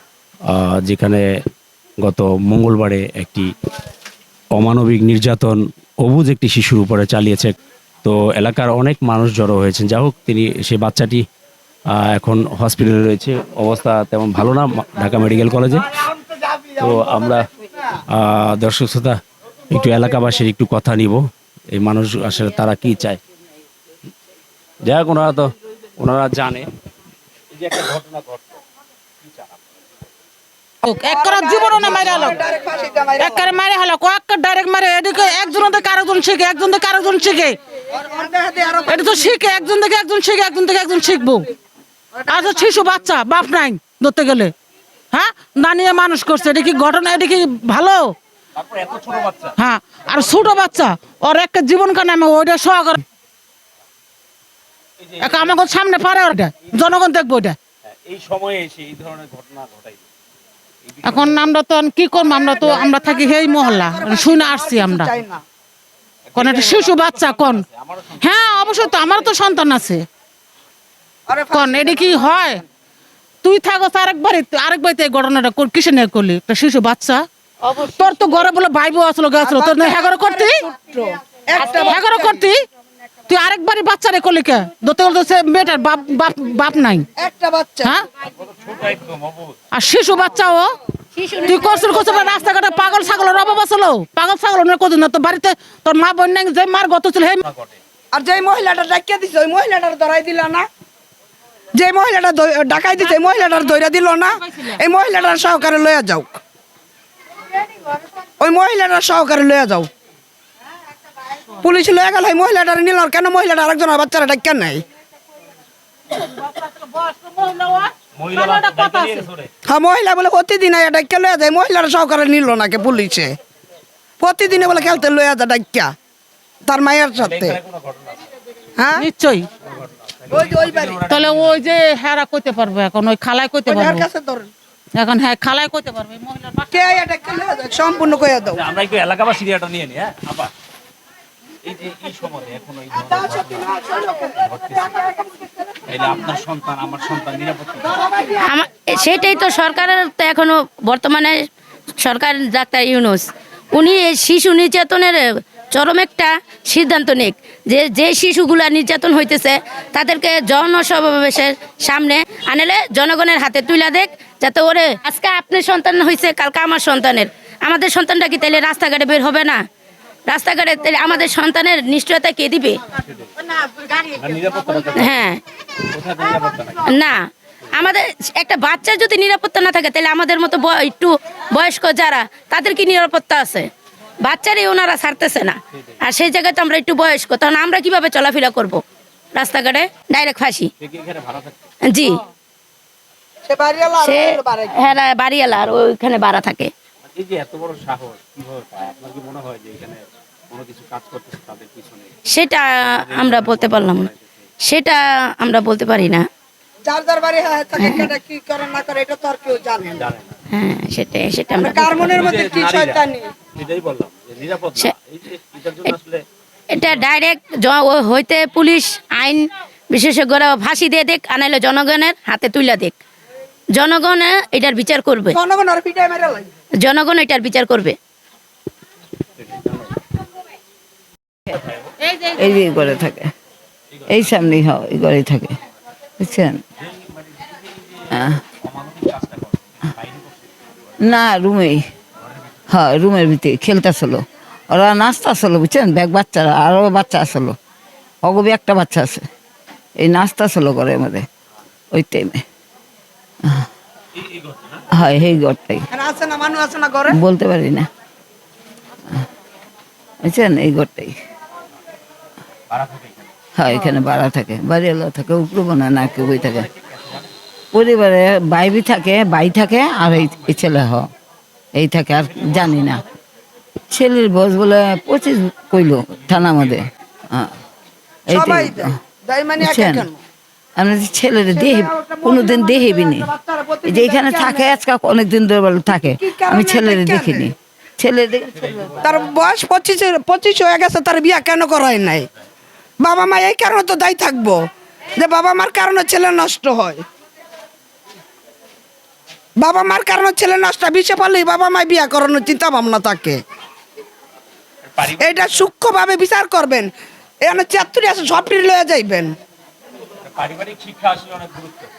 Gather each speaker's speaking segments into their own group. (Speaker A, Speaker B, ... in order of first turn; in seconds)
Speaker A: 0.5-1.2, 2.0-3.5, 4.5-11.2, 12.0-15.9, 16.8-17.4, 18.1-23.2, 24.9-26.7, 27.6-28.4, 48.6-49.6, 55.0-55.5, 58.1-60.0, 60.9-61.4, 66.3-69.3, 88.5-89.5, 118.2-119.5, 127.2-128.2, 130.2-131.6, 138.5-140.5, 141.7-143.7, 144.4-144.8, 145.9-147.8, 174.2-175.2, 175.9-176.8, 190.8-191.5, 197.2-202.1, 202.8-204.2, 210.0-210.3, 212.1-213.0, 213.6-216.2, 237.3-238.1, 238.6-240.3, 254.3-254.8, 262.7-263.1, 305.0-305.4, 310.3-311.9
Speaker B: 30.8-32.4, 33.2-37.6, 38.9-41.5, 42.2-44.5, 45.1-48.2, 49.6-53.0, 55.2-57.6, 61.0-65.1, 66.3-70.1, 71.5-72.6, 73.4-77.3, 77.8-80.7, 81.8-82.7, 83.3-87.1, 89.7-90.8, 91.5-97.4, 116.2-119.3, 128.9-129.5, 131.1-134.1, 135.0-136.7, 232.0-232.7
Speaker C: 30.9-33.5, 37.9-39.3, 42.4-42.6, 62.6-65.4, 71.3-72.6, 79.4-82.4, 87.2-88.0, 98.1-100.7, 101.7-106.4, 108.4-109.9, 111.6-114.8, 119.7-123.4, 124.2-125.9, 126.7-127.6, 128.8-129.1, 130.3-131.0, 133.7-134.5, 136.7-138.6, 143.0-145.5, 193.5-194.9, 206.8-210.0, 211.6-213.3, 225.3-226.5, 255.9-257.2, 263.7-264.0, 278.3-280.2, 281.5-284.8, 286.2-287.5, 289.0-292.3, 293.0-294.6, 295.1-297.0, 299.6-303.4, 305.1-306.9, 307.4-309.4
Speaker D: 81.6-82.0, 91.2-92.6, 148.4-151.5, 152.0-169.6, 170.3-172.8, 174.9-175.4, 176.9-177.2, 177.7-183.7, 184.2-188.8, 189.3-190.7, 191.9-192.2, 194.0-196.7, 202.3-204.1, 204.6-206.3, 207.8-208.1, 210.5-212.3, 216.7-223.0, 223.8-225.4, 226.8-228.0
Speaker E: 232.4-233.3, 234.1-235.6, 236.2-236.6, 238.1-238.4, 241.0-241.8, 242.7-247.6, 248.2-249.3, 250.0-251.3, 251.9-252.4, 254.9-255.9, 257.1-257.9, 260.2-261.1, 263.6-266.7, 267.7-271.1, 271.8-273.0, 273.9-277.6, 278.3-278.9, 279.6-280.1, 280.8-283.3, 283.9-288.9